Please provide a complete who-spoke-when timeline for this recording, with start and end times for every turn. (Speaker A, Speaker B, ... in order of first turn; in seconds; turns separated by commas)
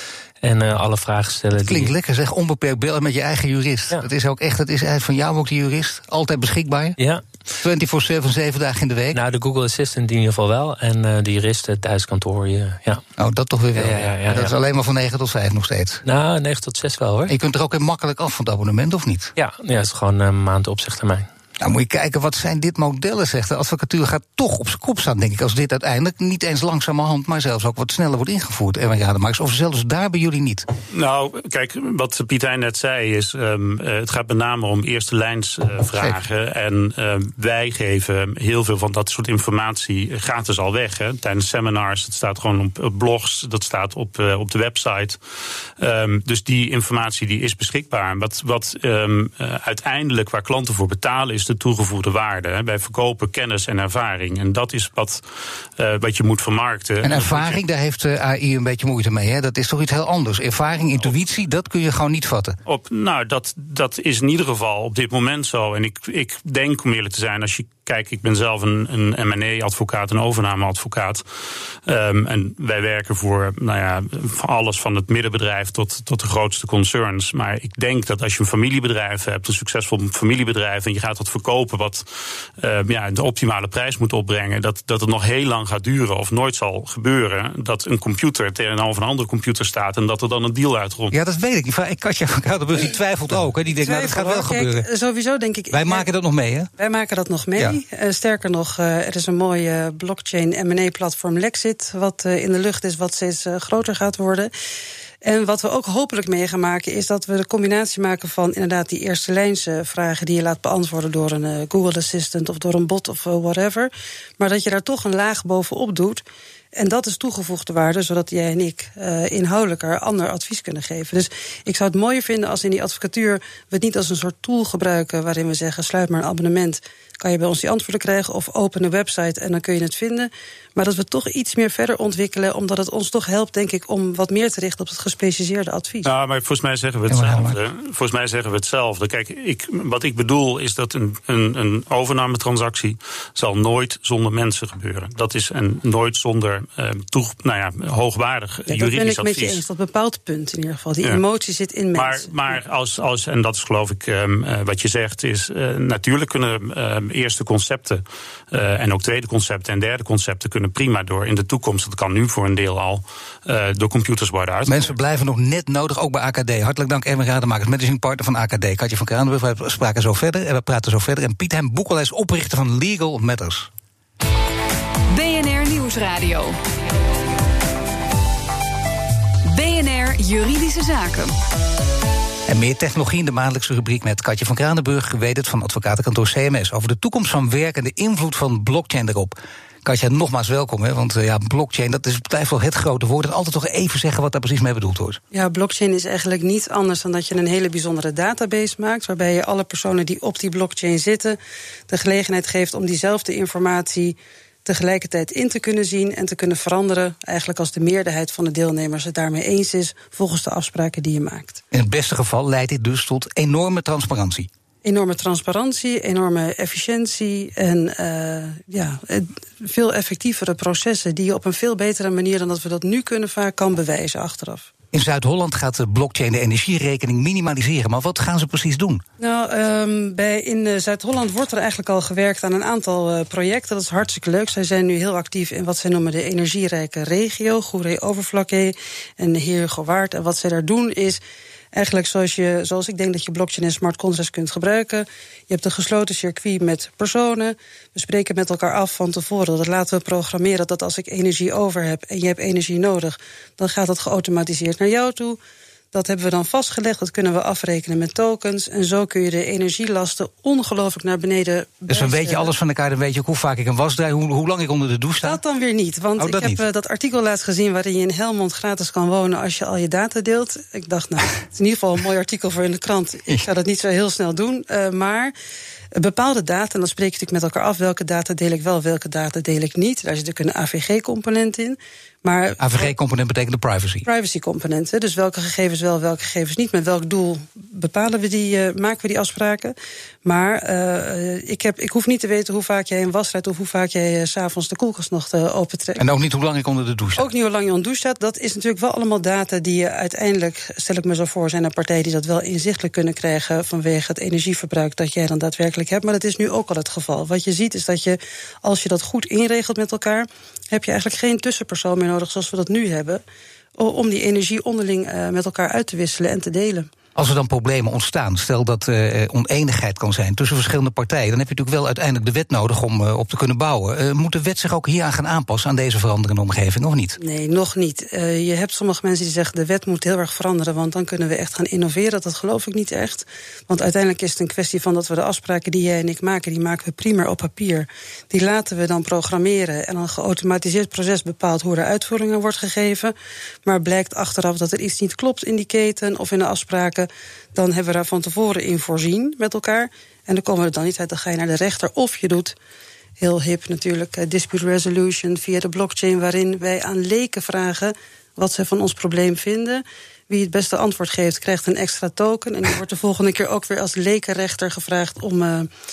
Speaker A: 0.4-1.9, Speaker B: 1.6-7.0, Speaker A: 7.0-7.2, Speaker B: 7.6-9.2, Speaker A: 9.1-13.0, Speaker B: 13.2-16.0, Speaker A: 13.7-14.5, Speaker A: 16.0-17.3, Speaker B: 17.3-19.3, Speaker A: 19.4-21.3, Speaker B: 21.6-30.6, Speaker C: 30.9-45.2, Speaker C: 45.8-55.2, Speaker C: 55.8-57.6, Speaker B: 57.0-62.5, Speaker C: 62.6-71.2, Speaker C: 71.9-82.0, Speaker C: 82.6-91.1, Speaker B: 91.1-94.9, Speaker D: 93.8-96.0, Speaker B: 95.7-96.7, Speaker D: 96.8-104.5, Speaker D: 105.2-116.2, Speaker D: 116.8-136.1, Speaker C: 136.0-149.6, Speaker B: 137.1-137.6, Speaker D: 148.7-152.3, Speaker C: 151.9-164.9, Speaker B: 164.7-173.7, Speaker E: 175.1-176.6, Speaker E: 179.4-181.3, Speaker B: 182.5-195.2, Speaker D: 195.3-201.4, Speaker D: 201.9-211.6, Speaker B: 211.7-214.5, Speaker D: 214.8-224.7, Speaker B: 224.9-229.0, Speaker D: 229.2-241.2, Speaker D: 241.7-255.4, Speaker D: 255.9-262.5, Speaker B: 261.9-265.4, Speaker D: 265.2-275.3, Speaker B: 266.2-266.6, Speaker D: 275.9-282.9, Speaker B: 282.6-284.1, Speaker D: 284.0-296.0, Speaker B: 296.0-297.3, Speaker D: 297.2-313.2, Speaker D: 313.8-316.9, Speaker B: 317.1-327.2, Speaker D: 327.2-343.1, Speaker D: 343.6-352.6, Speaker D: 353.2-365.7